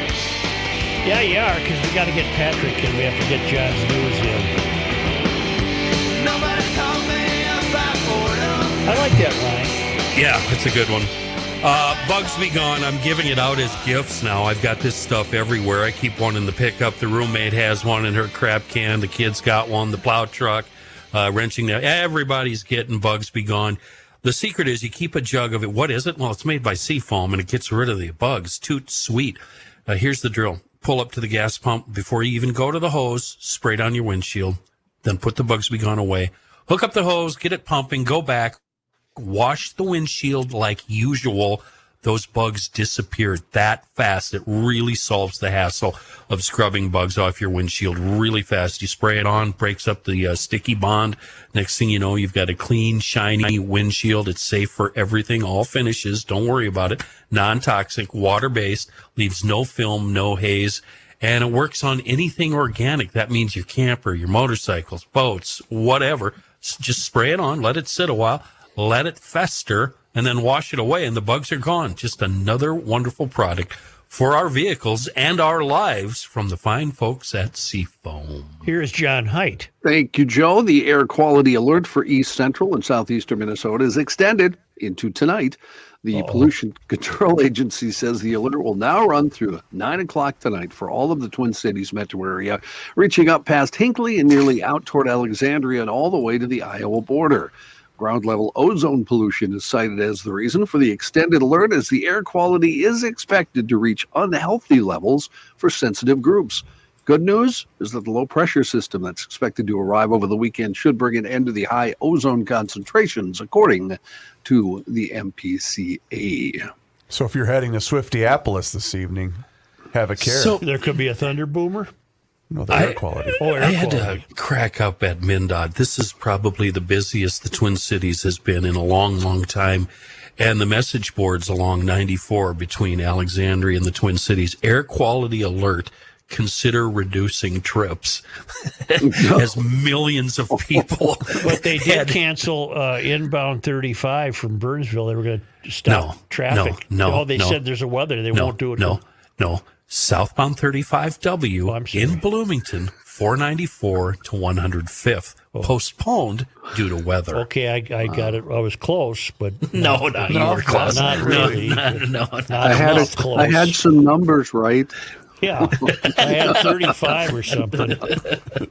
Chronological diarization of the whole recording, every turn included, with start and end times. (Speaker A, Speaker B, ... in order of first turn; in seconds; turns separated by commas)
Speaker A: 1.0-4.6, Speaker B: 6.0-8.9, Speaker A: 8.8-9.8, Speaker C: 10.1-38.6, Speaker C: 39.1-78.6, Speaker A: 78.6-79.7, Speaker D: 79.8-116.7, Speaker A: 86.1-86.5, Speaker E: 117.1-120.6, Speaker C: 120.2-120.6, Speaker A: 120.6-121.9, Speaker E: 122.5-123.7, Speaker C: 122.7-142.2, Speaker A: 123.4-124.2, Speaker D: 139.0-139.5, Speaker A: 141.4-149.0, Speaker C: 145.9-147.6, Speaker C: 148.3-157.4, Speaker A: 151.7-152.2, Speaker A: 157.3-162.0, Speaker C: 159.7-163.1, Speaker E: 160.3-161.9, Speaker A: 162.5-163.8, Speaker D: 162.6-164.9, Speaker A: 165.4-168.1, Speaker D: 165.8-166.6, Speaker C: 168.0-168.3